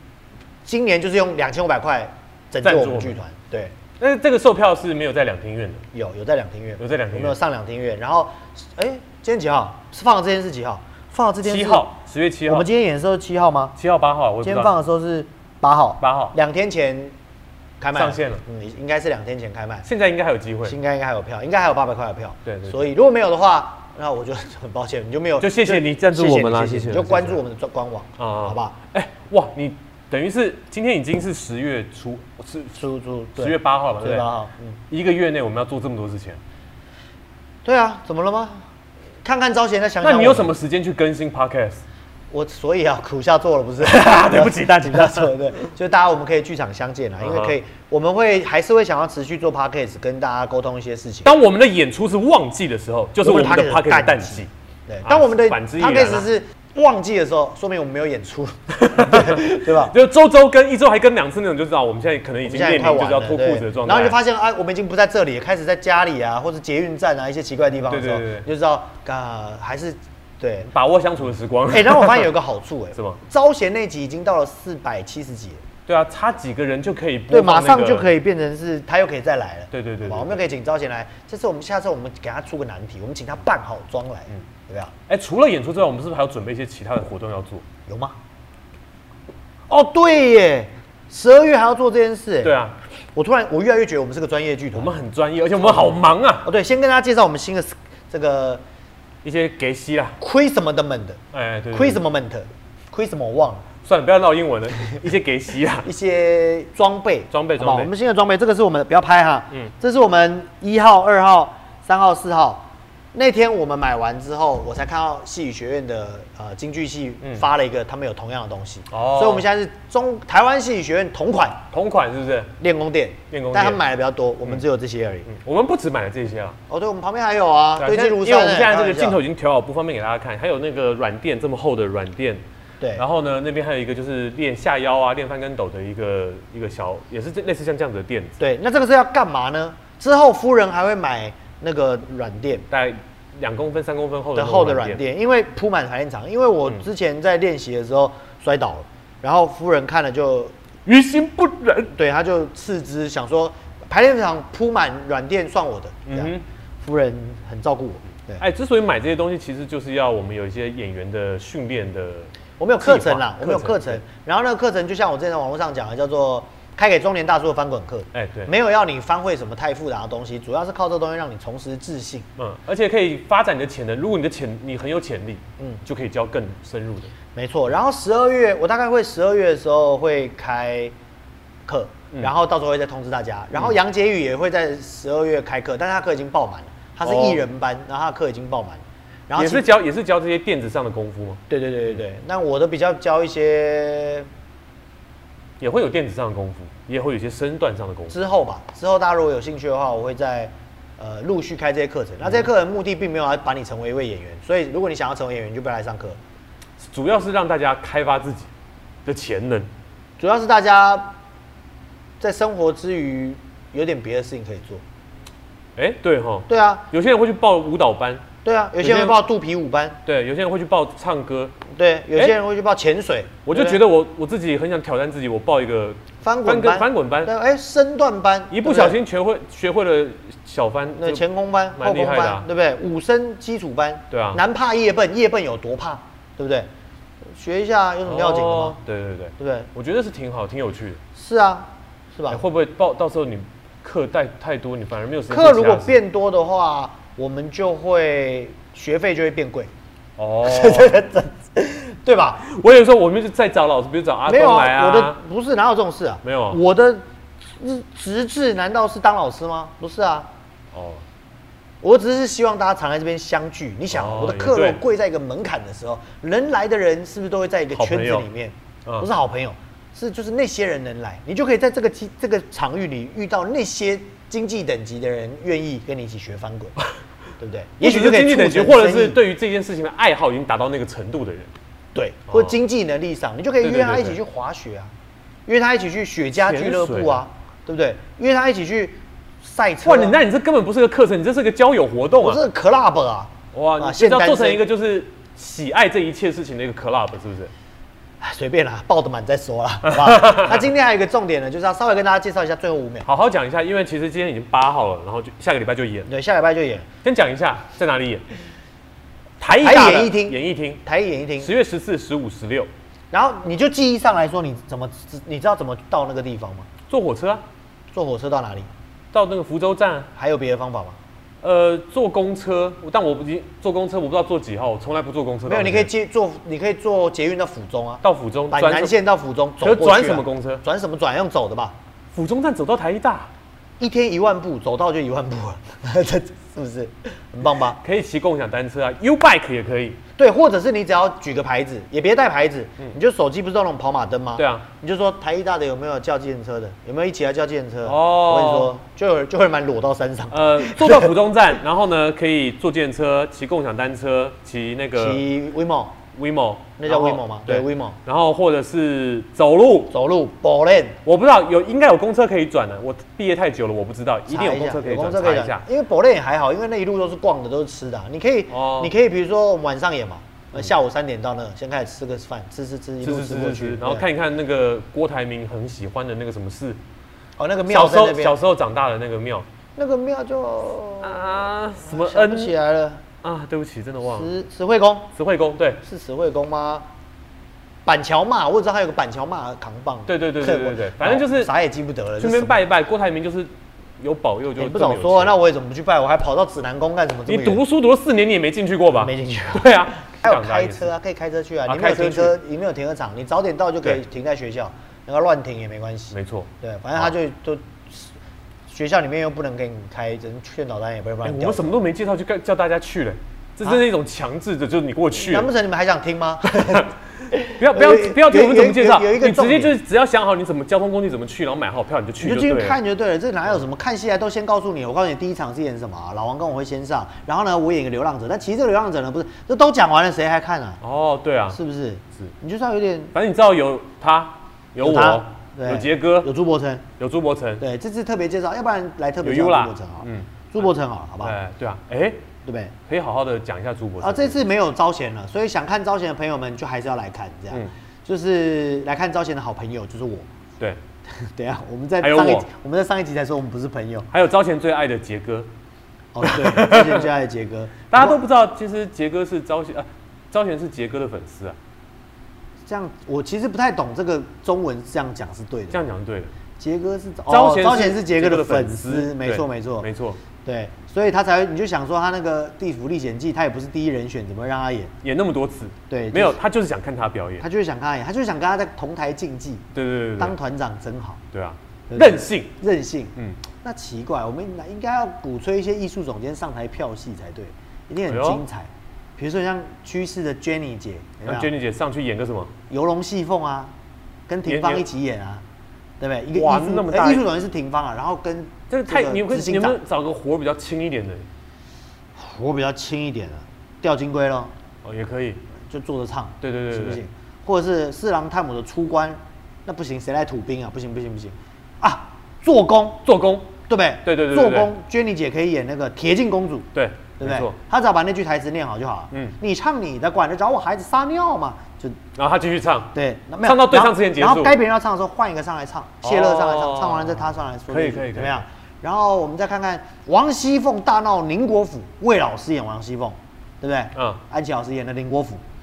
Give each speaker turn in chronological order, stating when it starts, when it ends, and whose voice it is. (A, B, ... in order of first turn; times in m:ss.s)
0:00.6-0:03.8 A
0:02.6-0:03.2 B
0:04.0-0:05.8 B
0:05.9-0:11.9 A
0:06.8-0:07.4 B
0:11.4-0:12.7 B
0:12.5-0:13.8 A
0:13.8-0:14.7 B
0:14.4-0:17.1 A
0:16.0-0:16.4 B
0:17.8-0:19.9 A
0:17.9-0:18.4 B
0:19.8-0:20.8 B
0:20.6-0:28.8 A
0:22.4-0:22.9 B
0:25.4-0:27.4 B
0:28.2-0:32.8 B
0:32.8-0:34.8 A
0:33.4-0:34.3 B
0:34.9-0:36.4 B
0:37.6-0:38.7 A
0:39.2-0:40.5 A
0:40.0-0:41.8 B
0:42.3-0:51.3 A
0:43.8-0:45.3 B
0:47.2-0:47.6 B
0:51.2-0:54.5 B
0:53.2-0:59.9 A
0:55.0-0:56.3 B
0:58.7-1:04.2 B
1:02.4-1:10.7 A
1:07.9-1:08.5 B
1:10.7-1:12.3 B
1:11.7-1:15.6 A
1:15.9-1:18.1 B
1:17.3-1:24.9 A
1:19.7-1:20.4 B
1:25.1-1:27.6 B
1:27.9-1:28.2 A
1:29.7-1:32.6 A
1:32.4-1:32.8 B
1:33.2-1:35.0 A
1:34.7-1:36.5 B
1:35.6-1:38.6 A
1:39.2-1:40.2 B
1:40.2-1:41.2 A
1:41.3-1:42.0 B
1:41.7-1:43.7 A
1:43.8-1:45.9 B
1:45.8-2:01.7 A
1:47.3-1:47.9 B
1:58.9-1:59.5 B
2:01.7-2:02.5 B
2:02.6-2:05.3 A
2:03.3-2:03.8 B
2:05.3-2:06.6 B
2:06.7-2:09.2 A
2:07.8-2:12.4 B
2:13.0-2:18.4 B
2:18.4-2:22.7 A
2:22.7-2:25.0 B
2:24.4-2:30.5 A
2:30.9-2:31.9 B
2:31.9-2:38.4 A
2:36.1-2:36.4 B
2:38.4-2:44.0 B
2:42.6-2:52.3 A
2:48.1-2:48.5 B
2:52.4-2:57.1 B
2:57.3-3:01.0 A
3:01.7-3:09.7 A
3:07.0-3:07.4 B
3:09.4-3:11.4 B
3:11.5-3:14.3 A
3:15.6-3:18.2 B
3:18.1-3:26.2 A
3:22.2-3:22.5 B
3:26.8-3:28.5 B
3:29.0-3:29.7 B
3:30.2-3:31.1 A
3:32.2-3:34.8 A
3:35.8-3:38.3 B
3:36.5-3:36.8 A
3:38.4-3:40.0 A
3:38.8-3:39.2 B
3:40.0-3:41.6 B
3:41.7-3:43.8 A
3:43.5-3:47.3 B
3:46.2-3:49.0 A
3:48.5-3:52.5 B
3:51.0-3:56.7 A
3:54.1-3:54.4 B
3:57.4-3:58.8 A
3:58.0-4:01.0 B
3:59.4-3:59.7 A
4:01.2-4:02.4 A
4:02.3-4:06.0 B
4:05.3-4:09.7 A
4:10.2-4:11.0 B
4:10.4-4:12.5 A
4:12.4-4:15.2 B
4:14.3-4:17.0 A
4:16.2-4:16.6 B
4:17.6-4:20.3 A
4:20.7-4:21.0 B
4:21.8-4:36.8 A
4:23.9-4:24.8 B
4:27.7-4:28.3 B
4:37.4-4:39.2 A
4:37.8-4:41.5 B
4:41.9-4:44.9 A
4:43.6-4:44.2 B
4:45.5-4:50.2 A
4:46.4-4:47.2 B
4:49.8-4:52.5 B
4:52.2-4:54.6 A
4:53.5-4:57.5 B
4:58.2-5:03.1 A
4:59.9-5:00.6 B
5:03.0-5:06.1 B
5:06.1-5:06.9 A
5:07.0-5:08.2 B
5:09.4-5:10.8 B
5:09.6-5:11.5 A
5:11.4-5:12.7 B
5:13.1-5:16.7 A
5:16.9-5:17.4 B
5:17.9-5:18.7 A
5:19.1-5:20.1 B
5:20.2-5:21.0 A
5:21.4-5:25.9 B
5:25.5-5:31.8 A
5:28.0-5:28.9 B
5:29.6-5:30.6 B
5:32.1-5:33.3 B
5:33.8-5:37.8 A
5:37.8-5:40.0 B
5:40.2-5:51.2 A
5:44.4-5:44.6 B
5:47.8-5:48.7 B
5:50.3-5:55.2 B
5:55.0-5:56.0 A
5:56.1-5:59.9 B
5:56.8-5:58.0 A
5:59.9-6:01.0 A
6:01.0-6:05.6 B
6:04.3-6:14.0 A
6:08.5-6:08.9 B
6:13.0-6:16.8 B
6:17.4-6:18.4 A
6:17.7-6:19.5 B
6:19.8-6:23.0 A
6:21.0-6:22.6 B
6:23.2-6:24.3 B
6:24.1-6:25.1 A
6:25.1-6:25.8 B
6:25.8-6:26.9 A
6:27.9-6:32.6 A
6:30.1-6:31.5 B
6:32.2-6:35.4 B
6:34.6-6:37.6 A
6:37.3-6:40.9 B
6:39.0-6:48.1 A
6:41.6-6:42.4 B
6:46.1-6:47.1 B
6:48.7-6:51.8 A
6:51.2-6:55.5 B
6:55.2-6:59.7 A
6:56.4-6:56.9 B
6:57.5-7:02.8 B
7:02.2-7:10.8 A
7:10.8-7:11.6 B
7:11.5-7:13.1 A
7:13.1-7:16.3 B
7:14.8-7:16.9 A
7:17.0-7:17.6 B
7:17.6-7:21.4 A
7:19.2-7:20.3 B
7:21.2-7:22.2 B
7:22.4-7:22.8 A
7:22.9-7:24.4 B
7:24.0-7:30.3 A
7:31.2-7:34.1 A
7:32.0-7:32.5 B
7:34.1-7:35.5 B
7:36.1-7:38.2 A
7:36.2-7:37.1 B
7:37.9-7:41.6 B
7:42.7-7:45.8 A
7:45.7-7:46.3 B
7:46.6-7:49.9 A
7:47.3-7:50.2 B
7:50.4-7:54.9 A
7:55.0-7:57.4 B
7:55.9-7:56.4 A
7:57.4-7:59.7 A
7:59.7-8:00.4 B
8:00.2-8:01.2 A
8:01.3-8:02.6 B
8:01.9-8:11.5 A
8:08.1-8:08.4 B
8:11.2-8:12.5 B
8:12.7-8:13.7 A
8:14.3-8:15.4 A
8:14.4-8:14.8 B
8:16.0-8:19.8 A
8:16.3-8:17.3 B
8:18.7-8:21.3 B
8:22.2-8:24.5 A
8:24.8-8:25.4 B
8:25.7-8:33.0 A
8:26.4-8:27.0 B
8:33.0-8:34.7 B
8:33.7-8:36.7 A
8:36.7-8:37.6 B
8:37.2-8:42.0 A
8:39.1-8:39.4 B
8:42.2-8:44.6 B
8:42.9-8:55.4 A
8:46.0-8:48.4 B
8:54.0-8:54.2 B